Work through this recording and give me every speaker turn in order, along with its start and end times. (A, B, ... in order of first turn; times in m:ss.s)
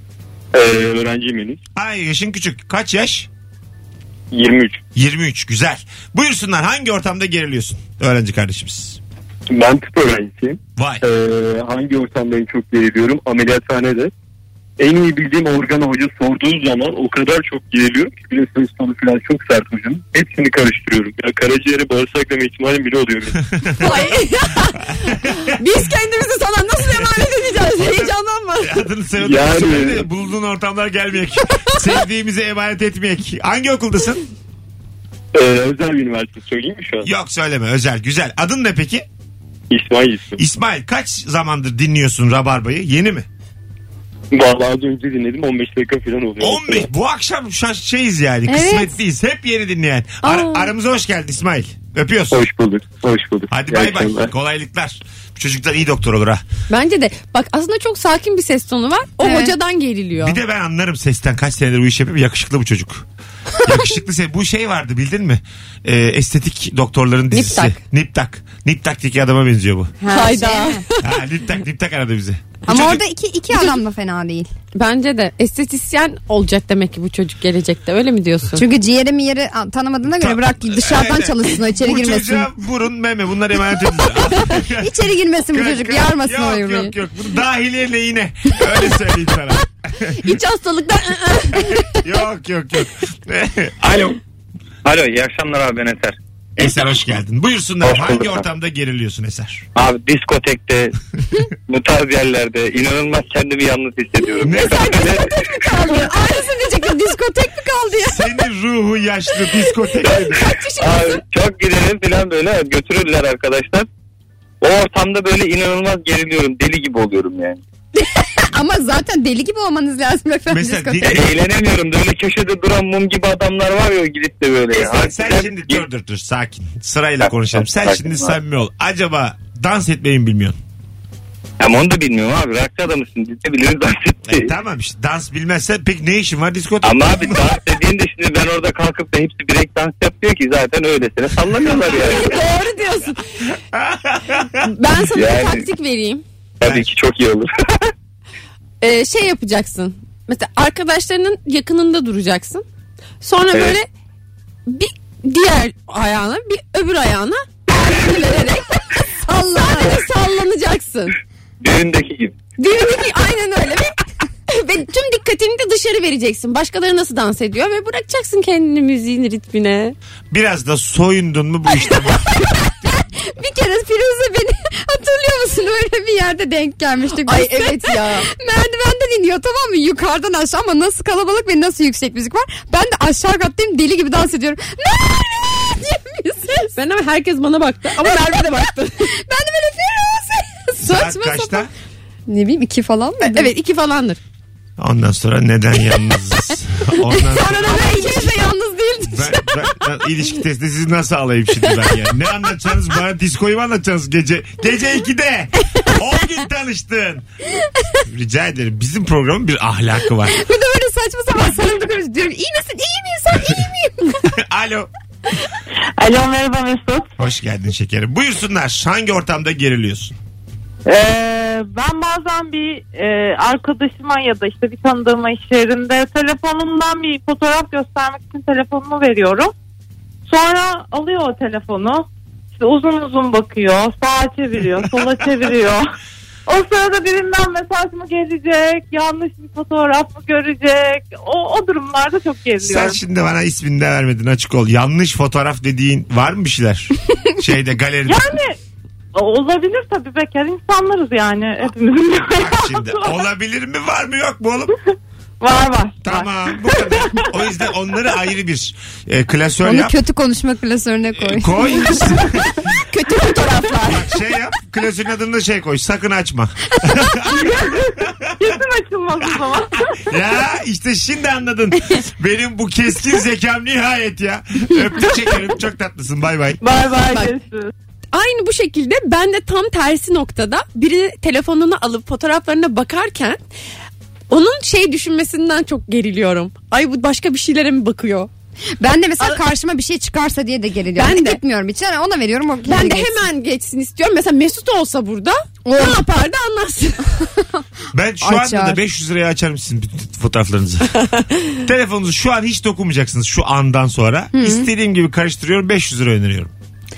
0:00.6-0:01.4 A
0:01.1-0:01.6 B
0:01.8-0:03.3 C
0:04.4-0:04.7 A
0:05.0-0:09.0 C
0:09.5-0:14.1 B
0:09.6-0:10.2 A
0:10.8-0:11.0 C
0:12.2-0:12.6 A
0:13.4-0:14.0 A
0:14.8-0:21.2 B
0:21.4-0:22.8 A
0:23.5-0:23.9 C
0:23.8-0:24.9 D
0:25.5-0:28.8 D
0:27.8-0:34.2 C
0:29.2-0:29.9 A
0:35.4-0:37.0 A
0:35.8-0:37.0 B
0:37.0-0:39.0 C
0:39.7-0:40.4 B
0:40.4-0:43.3 C
0:44.3-0:46.8 B
0:46.4-0:52.4 C
0:48.5-0:48.9 E
0:50.2-0:50.7 D
0:52.3-0:54.1 A
0:53.5-0:56.4 C
0:53.7-0:54.2 B
0:56.7-1:00.4 D
0:59.2-0:59.5 E
1:00.2-1:03.1 C
1:03.6-1:09.9 C
1:07.3-1:07.8 D
1:10.0-1:10.8 E
1:10.1-1:11.0 D
1:11.0-1:13.0 C
1:12.7-1:14.5 E
1:14.8-1:18.6 D
1:18.5-1:22.5 E
1:20.2-1:30.4 C
1:24.5-1:26.9 E
1:30.2-1:31.8 D
1:31.6-1:34.1 C
1:34.9-1:36.1 A
1:36.6-1:39.7 C
1:37.8-1:38.4 A
1:39.8-1:40.9 A
1:41.7-1:45.3 A
1:44.4-1:45.1 C
1:44.5-1:46.9 D
1:45.7-1:48.2 E
1:48.1-1:50.5 C
1:50.3-1:51.2 D
1:50.8-1:53.8 A
1:54.6-1:57.6 A
1:58.4-2:01.2 E
2:00.5-2:01.4 C
2:01.0-2:05.8 A
2:04.8-2:10.6 C
2:07.5-2:08.3 A
2:11.6-2:14.5 A
2:14.2-2:17.6 C
2:16.8-2:22.4 A
2:21.9-2:23.5 D
2:23.7-2:24.6 C
2:24.6-2:26.2 D
2:25.0-2:25.6 A
2:26.6-2:27.5 A
2:28.8-2:32.6 D
2:33.2-2:33.9 D
2:34.7-2:41.2 D
2:41.6-2:42.3 A
2:42.6-2:50.0 D
2:50.3-2:52.9 C
2:52.6-3:06.7 E
2:57.2-2:58.3 D
3:06.7-3:09.1 D
3:08.0-3:08.6 E
3:09.2-3:11.4 E
3:10.8-3:11.7 C
3:11.0-3:11.4 D
3:12.3-3:13.5 E
3:13.2-3:14.2 D
3:14.8-3:18.1 C
3:17.2-3:19.7 D
3:17.5-3:18.4 E
3:19.0-3:27.3 C
3:28.1-3:30.4 C
3:30.3-3:34.2 E
3:34.3-3:34.9 C
3:36.0-3:37.1 F
3:37.2-3:40.2 C
3:40.9-3:49.5 F
3:50.3-3:52.1 F
3:52.6-3:55.8 F
3:56.5-4:03.0 F
4:02.6-4:08.4 C
4:08.1-4:08.5 F
4:09.2-4:13.2 F
4:12.4-4:14.7 C
4:15.4-4:16.2 F
4:16.0-4:19.9 C
4:19.6-4:22.2 E
4:21.2-4:22.6 C
4:22.9-4:24.0 D
4:23.8-4:28.6 C
4:27.3-4:30.2 F
4:30.0-4:36.6 C
4:36.6-4:37.7 F
4:37.1-4:37.3 D
4:38.1-4:43.4 D
4:44.3-4:48.3 D
4:48.8-4:53.2 E
4:51.0-4:51.4 D
4:52.6-4:57.3 D
4:57.9-5:01.1 C
4:58.2-4:58.8 E
5:01.6-5:06.5 C
5:04.3-5:04.7 E